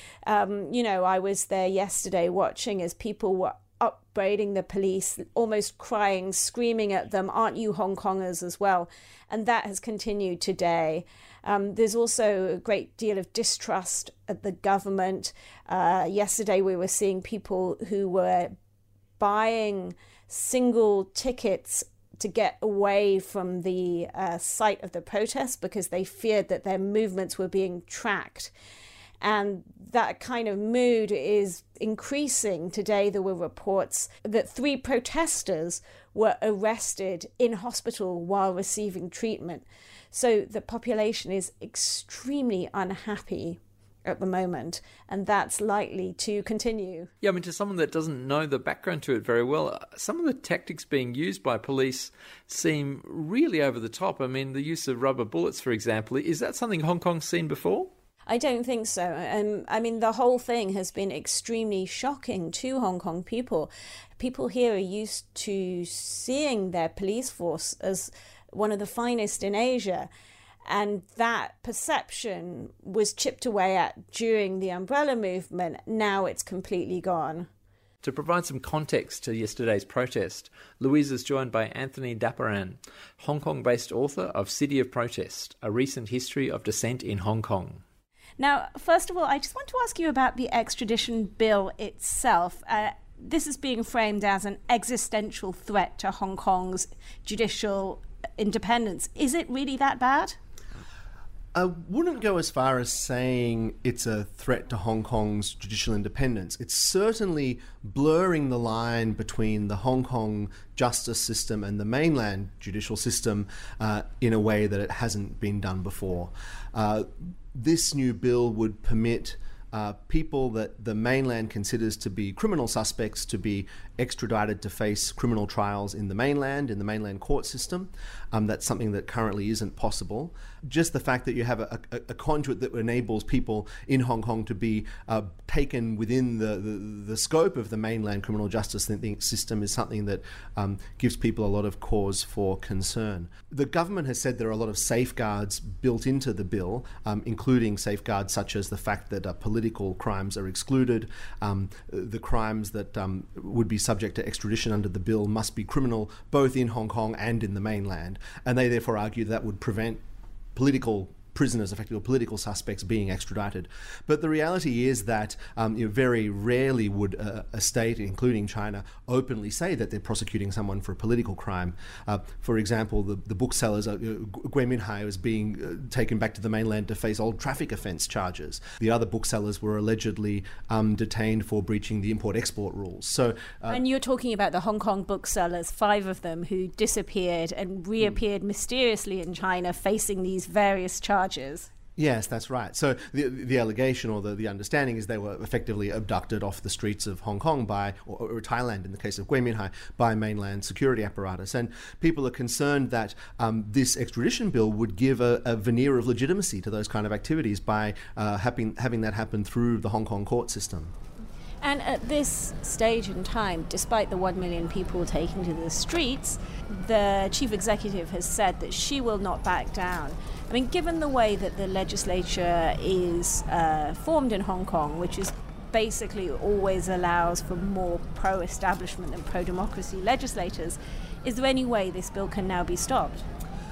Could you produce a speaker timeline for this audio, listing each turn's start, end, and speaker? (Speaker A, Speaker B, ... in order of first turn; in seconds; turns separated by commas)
Speaker A: 0.3-18.6, Speaker A: 19.2-28.5, Speaker A: 29.2-47.1, Speaker B: 47.2-57.9, Speaker A: 58.3-70.1, Speaker A: 70.7-77.5, Speaker B: 78.0-87.8, Speaker A: 88.4-100.4, Speaker C: 101.5-160.0, Speaker C: 160.6-183.8, Speaker A: 183.7-191.7, Speaker C: 192.0-210.9, Speaker A: 211.6-233.2